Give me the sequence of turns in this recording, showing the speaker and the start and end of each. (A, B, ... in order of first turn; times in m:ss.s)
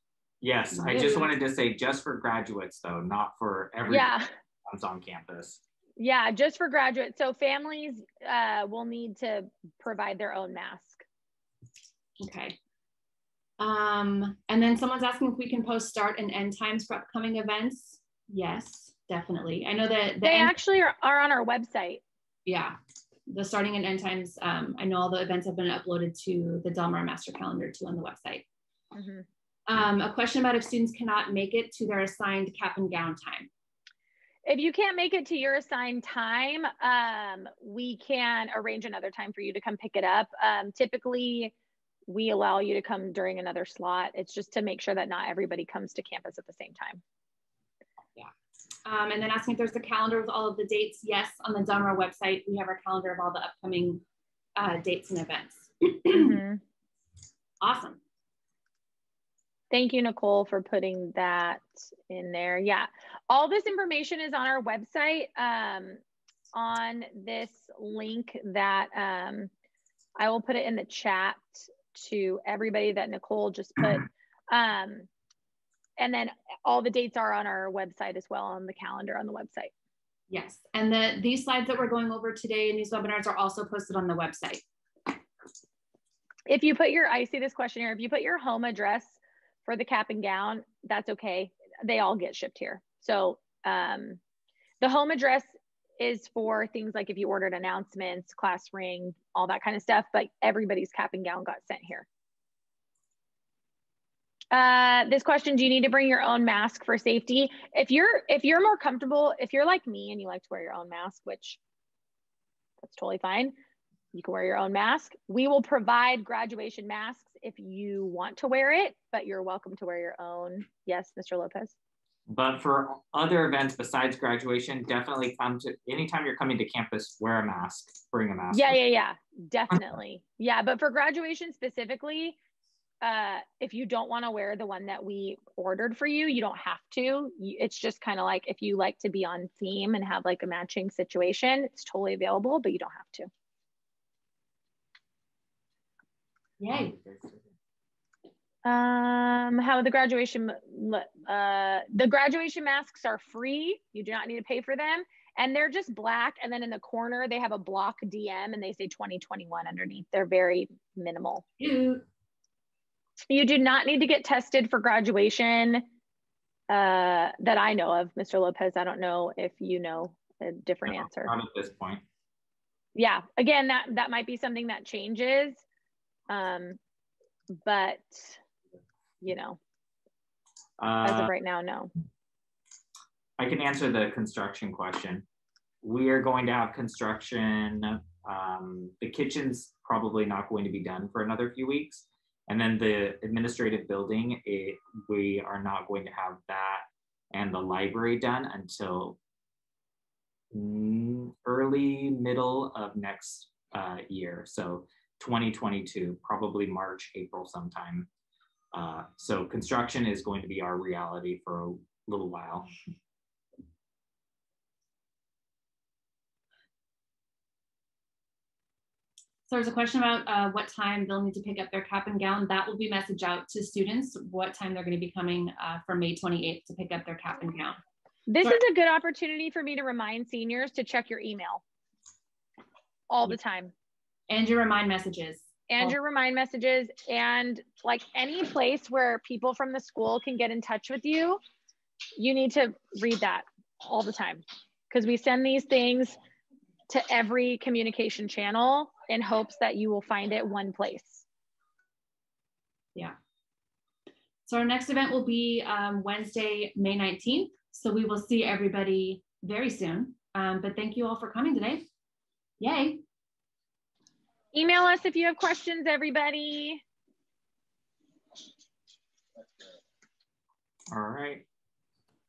0:00.4-0:04.1 A
0:00.7-0:01.3 B
0:03.9-0:04.3 C
0:04.6-0:05.6 A
0:06.0-0:11.0 C
0:12.2-0:12.6 B
0:13.6-0:20.5 B
0:20.2-0:22.0 C
0:22.4-0:28.4 B
0:28.9-0:29.2 C
0:29.7-0:33.5 B
0:34.4-0:41.5 C
0:42.1-0:47.0 C
0:48.8-0:54.0 B
0:54.6-0:56.4 B
0:56.1-0:56.6 C
0:57.6-0:58.0 B
0:59.7-1:06.0 C
1:06.5-1:09.5 C
1:10.2-1:15.1 C
1:16.0-1:19.7 C
1:20.3-1:24.6 B
1:26.5-1:34.2 C
1:34.8-1:42.1 C
1:44.5-1:51.6 C
1:52.8-1:53.5 C
1:54.1-2:01.8 C
2:02.3-2:08.8 A
2:08.5-2:12.4 C
2:13.0-2:23.3 C
2:26.6-2:26.9 B
2:26.7-2:27.4 A
2:28.6-2:41.4 C
2:41.6-2:42.1 B
2:43.3-2:45.8 C
2:46.7-2:51.3 C
2:50.8-2:52.0 A
2:53.0-2:55.6 C
2:56.3-2:56.8 C
2:57.6-2:58.4 C
2:59.2-2:59.6 C
3:00.8-3:01.3 A
3:01.0-3:01.9 C
3:03.4-3:05.2 A
3:05.8-3:19.2 A
3:20.5-3:28.1 A
3:28.7-3:32.7 A
3:39.5-3:47.8 B
3:48.3-3:51.6 C
3:53.1-3:53.7 C
3:54.3-3:55.9 B
3:55.7-4:01.4 C
4:02.2-4:06.2 C
4:06.9-4:11.2 C
4:14.5-4:21.8 B
4:22.6-4:23.0 B
4:24.5-4:26.8 C
4:30.9-4:31.5 A